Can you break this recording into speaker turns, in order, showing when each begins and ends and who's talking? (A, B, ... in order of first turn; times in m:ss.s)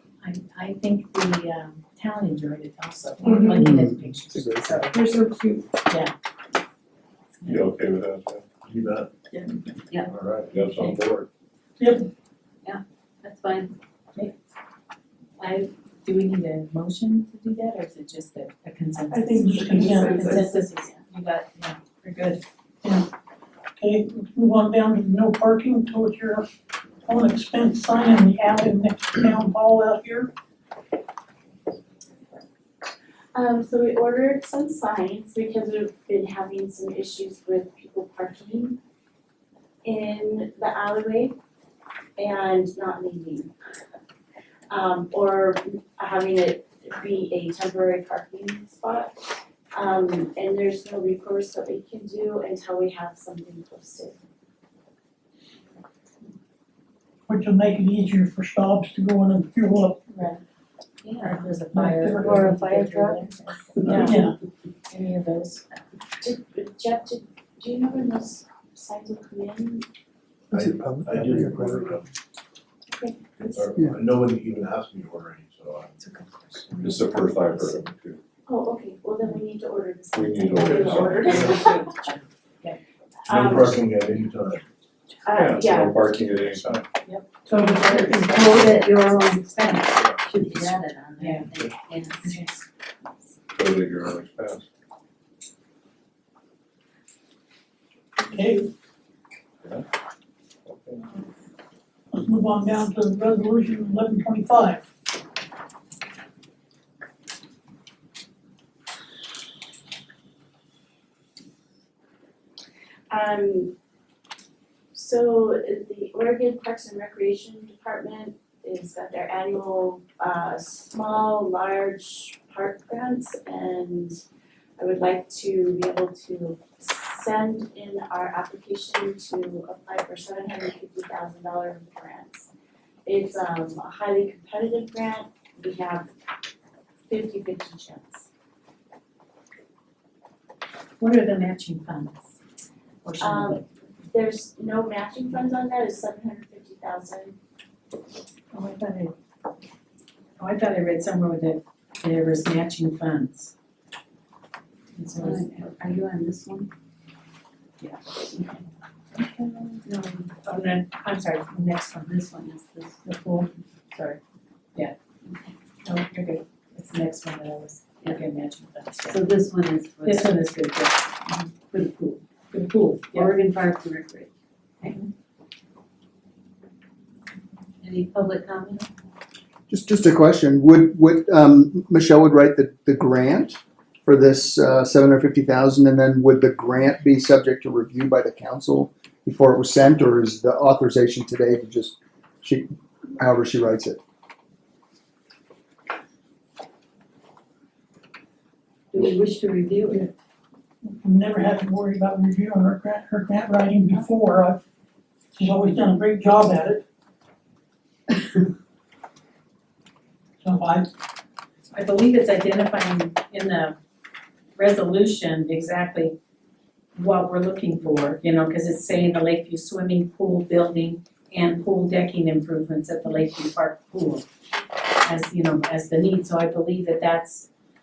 0:00.2-0:05.0 A
0:03.2-0:03.7 B
0:03.5-0:05.0 C
0:04.9-0:05.6 B
0:07.4-0:07.6 A
0:07.5-0:08.5 D
0:08.6-0:09.1 E
0:10.0-0:10.7 E
0:10.5-0:11.3 D
0:11.8-0:12.1 F
0:12.6-0:13.8 G
0:15.4-0:22.4 A
0:19.1-0:20.6 B
0:19.3-0:20.1 F
0:19.9-0:20.3 H
0:22.8-0:23.1 F
0:23.8-0:26.5 F
0:27.0-0:30.3 F
0:33.3-0:38.8 H
0:39.8-0:41.4 H
0:42.2-0:43.5 H
0:44.7-0:49.1 H
0:49.7-0:54.2 H
0:57.3-1:00.0 F
1:00.1-1:00.4 A
1:01.0-1:01.5 G
1:01.2-1:04.3 A
1:01.7-1:02.2 F
1:02.0-1:04.0 G
1:03.8-1:04.4 F
1:04.9-1:05.8 A
1:06.2-1:09.9 H
1:10.5-1:12.0 C
1:10.5-1:12.1 E
1:12.9-1:13.6 H
1:13.4-1:16.0 E
1:16.0-1:17.9 A
1:16.8-1:18.2 D
1:18.5-1:21.8 H
1:20.1-1:21.7 D
1:21.3-1:22.8 A
1:23.2-1:23.8 H
1:23.3-1:24.6 E
1:25.3-1:26.8 H
1:25.3-1:26.8 D
1:27.0-1:30.0 A
1:27.6-1:32.4 G
1:31.2-1:31.5 A
1:32.2-1:32.6 A
1:33.6-1:34.6 D
1:38.2-1:38.7 F
1:40.7-1:41.0 D
1:42.1-1:44.8 F
1:53.1-1:53.7 H
1:54.9-2:04.2 H
2:04.8-2:12.5 H
2:13.1-2:16.1 H
2:17.1-2:18.3 H
2:21.0-2:22.3 A
2:23.0-2:23.7 A
2:23.2-2:27.4 H
2:28.5-2:29.1 A
2:30.4-2:33.5 A
2:35.0-2:35.6 A
2:35.2-2:36.7 G
2:37.8-2:38.6 A
2:39.2-2:42.1 A
2:39.8-2:40.3 G
2:42.0-2:43.0 G
2:43.0-2:44.2 A
2:45.8-2:49.2 A
2:49.1-2:50.4 G
2:50.0-2:51.5 A
2:51.7-2:52.2 G
2:52.5-2:53.3 A
2:53.1-2:54.3 G
2:54.8-2:55.1 A
2:57.8-2:58.9 G
2:59.7-3:14.0 C
3:18.9-3:20.1 G
3:20.9-3:24.6 F
3:25.4-3:26.8 F
3:30.4-3:30.9 F
3:31.7-3:33.8 A
3:34.6-3:36.2 A
3:37.0-3:44.2 A
3:45.0-3:47.5 A